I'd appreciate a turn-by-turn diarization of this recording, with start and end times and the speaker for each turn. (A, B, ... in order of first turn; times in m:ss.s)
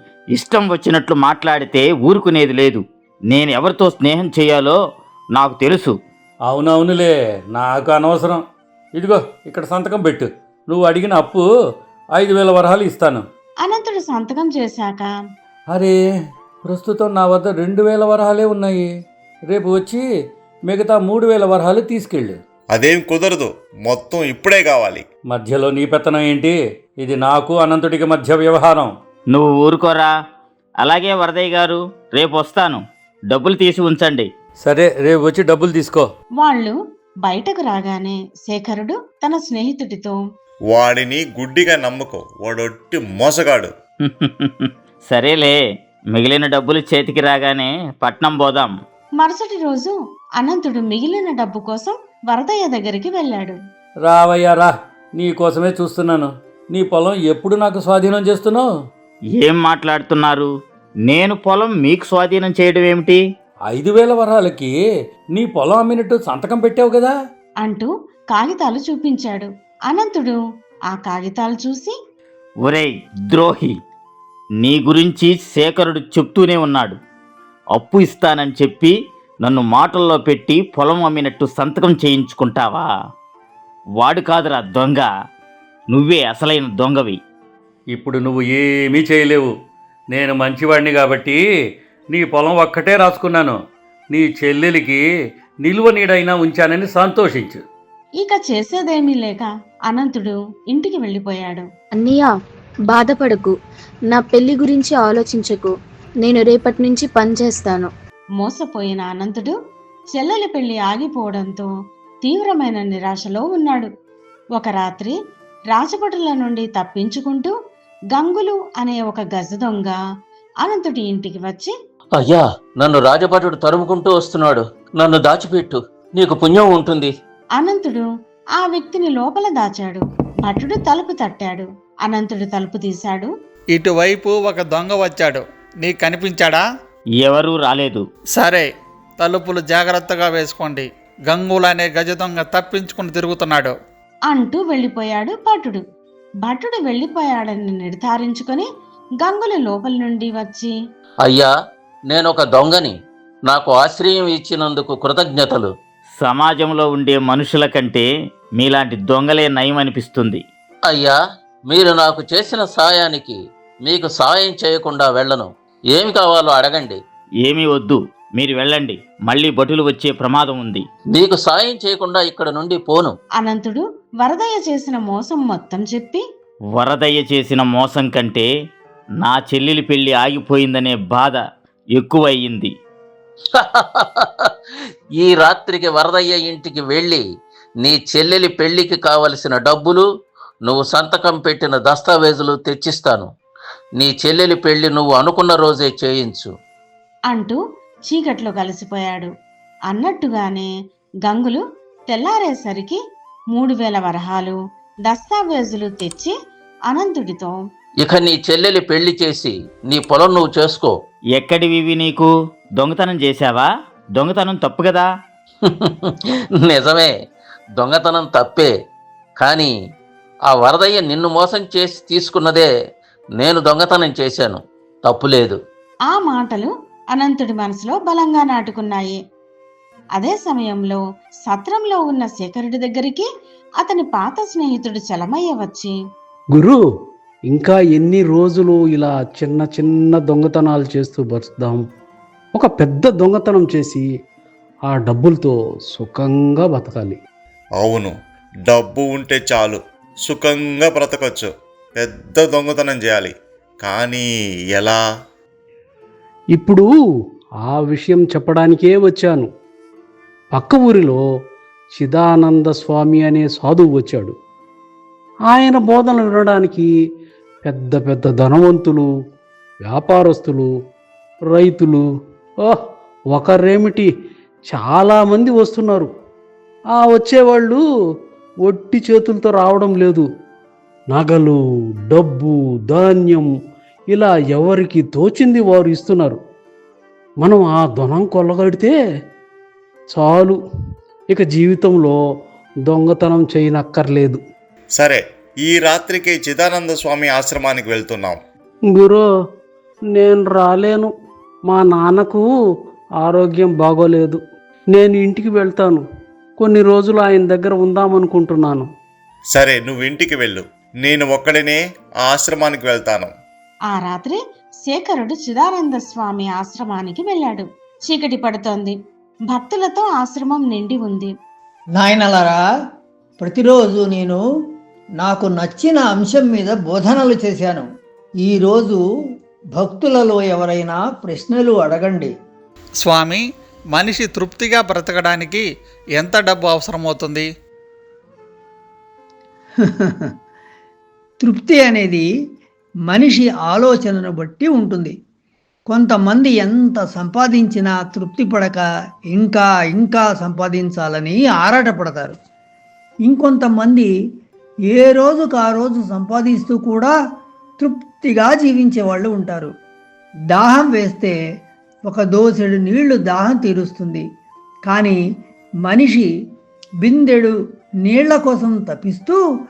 0:00.3-0:04.8 A
0:05.4-0:05.9 A
0:06.4-0:08.4 B
0:08.9-0:11.4 B
0:12.1-0:13.2 B
0:13.6-0:15.1 C
0:15.7-0:16.0 B
0:16.6-0:18.9 B
0:19.4-0:20.0 B
0:20.7-0:22.4 B
0:22.7-0:25.0 D
0:25.3-0:28.9 B
0:29.3-0:30.1 A
0:30.8-0:34.3 A
0:34.6-0:36.0 B
0:36.4-0:40.2 C
0:40.7-0:43.7 D
0:44.1-0:45.6 A
0:46.1-0:48.7 A
0:49.2-0:53.6 C
0:54.0-0:58.7 B
0:59.4-1:00.5 A
1:01.0-1:03.2 A
1:03.7-1:04.8 B
1:05.3-1:07.1 B
1:07.6-1:10.4 C
1:10.9-1:12.0 C
1:12.6-1:13.7 A
1:14.6-1:16.9 A
1:17.8-1:22.9 A
1:24.0-1:25.1 A
1:25.9-1:27.2 A
1:27.9-1:29.5 B
1:30.1-1:31.4 B
1:32.1-1:33.6 B
1:34.1-1:35.0 B
1:35.6-1:37.6 B
1:38.2-1:41.7 C
1:42.0-1:42.3 E
1:42.9-1:43.4 F
1:42.9-1:43.5 E
1:44.1-1:45.7 E
1:46.2-1:47.8 E
1:48.4-1:49.6 C
1:50.1-1:51.7 C
1:52.2-1:53.9 C
1:54.5-1:55.2 C
1:55.7-1:57.5 C
1:58.1-2:00.0 C
2:00.6-2:01.7 C
2:02.2-2:07.1 F
2:07.6-2:13.3 C
2:13.7-2:16.7 G
2:17.2-2:18.0 A
2:18.3-2:23.8 G
2:24.3-2:25.8 C
2:26.4-2:30.8 C
2:31.2-2:31.5 F
2:32.1-2:33.0 F
2:33.5-2:35.7 F
2:36.2-2:38.0 A
2:38.6-2:40.4 A
2:40.9-2:41.2 F
2:41.7-2:47.0 F
2:47.4-2:50.8 A
2:51.1-2:53.1 F
2:53.4-2:56.2 C
2:56.8-2:58.5 A
2:59.2-3:01.4 A
3:02.0-3:02.7 A
3:05.2-3:07.2 F
3:07.8-3:10.0 F
3:10.7-3:13.3 F
3:14.0-3:16.5 F
3:17.3-3:19.3 C
3:19.9-3:20.7 C
3:21.2-3:23.0 C
3:23.5-3:26.4 C
3:26.9-3:27.6 C
3:28.0-3:30.9 F
3:31.4-3:35.1 A
3:36.6-3:37.1 F
3:37.8-3:38.7 F
3:39.4-3:39.7 F
3:40.5-3:42.7 F
3:43.4-3:45.6 F
3:46.1-3:49.2 C
3:50.2-3:53.3 C
3:53.8-3:56.0 C
3:56.5-3:56.8 H
3:57.5-4:01.8 H
4:02.5-4:04.1 H
4:04.8-4:07.2 H
4:07.8-4:08.1 D
4:08.7-4:15.0 D
4:16.5-4:16.9 H
4:17.6-4:19.5 H
4:20.5-4:21.2 H
4:21.9-4:24.4 H
4:25.4-4:26.9 H
4:27.6-4:29.1 H
4:29.8-4:30.7 H
4:31.4-4:32.1 H
4:32.6-4:34.1 H
4:34.6-4:36.1 H
4:36.9-4:37.8 H
4:38.6-4:40.3 H
4:41.1-4:43.5 H
4:44.1-4:46.4 H
4:47.4-4:49.0 H
4:50.1-4:50.6 H
4:51.3-4:52.2 H
4:52.8-4:54.4 H
4:55.0-4:58.4 D
4:58.9-4:59.3 H
5:00.1-5:01.1 H
5:01.6-5:02.5 H
5:03.2-5:06.0 H
5:06.6-5:08.9 H
5:09.5-5:13.3 D
5:13.9-5:19.0 C
5:19.5-5:21.3 C
5:22.0-5:22.6 I
5:23.4-5:24.4 I
5:25.2-5:27.8 I
5:28.4-5:29.0 I
5:29.8-5:32.3 I
5:32.9-5:37.5 G
5:39.8-5:40.3 I
5:41.4-5:42.2 I
5:43.1-5:45.1 I
5:45.9-5:52.3 I
5:53.2-5:54.1 I
5:54.9-5:57.1 I
5:57.8-5:59.7 I
6:00.5-6:01.3 I
6:02.0-6:04.2 I
6:04.9-6:05.2 I
6:05.9-6:06.3 I
6:07.0-6:07.5 I
6:08.0-6:09.4 I